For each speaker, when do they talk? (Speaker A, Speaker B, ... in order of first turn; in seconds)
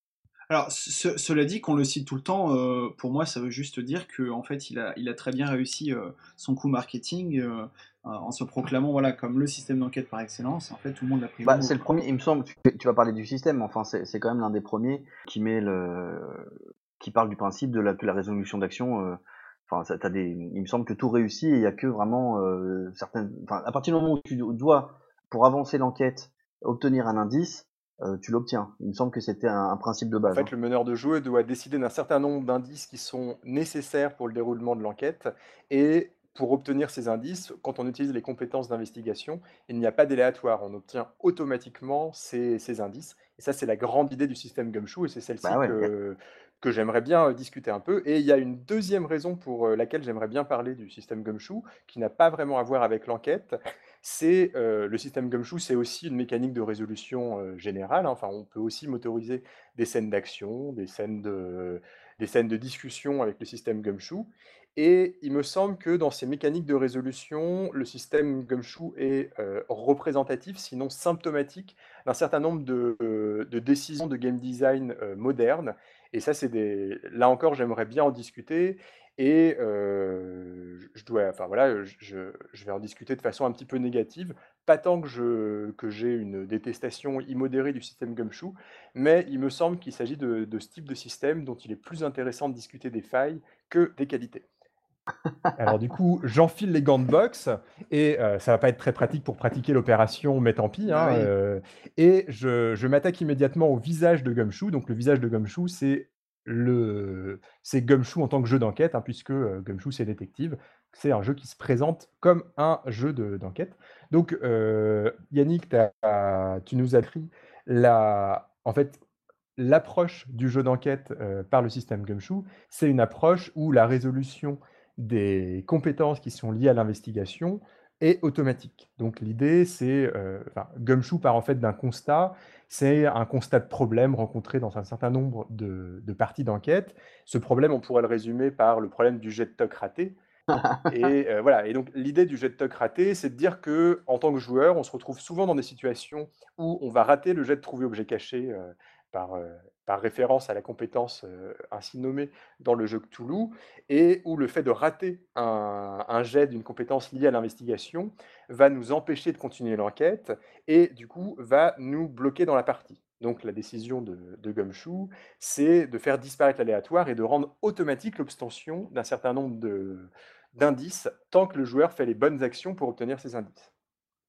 Speaker A: 0.5-11.8
Speaker B: 11.4-30.5, 45.4-45.9, 100.9-101.3, 140.5-140.9
Speaker C: 30.3-94.5, 95.6-119.0, 119.6-140.2, 140.9-173.7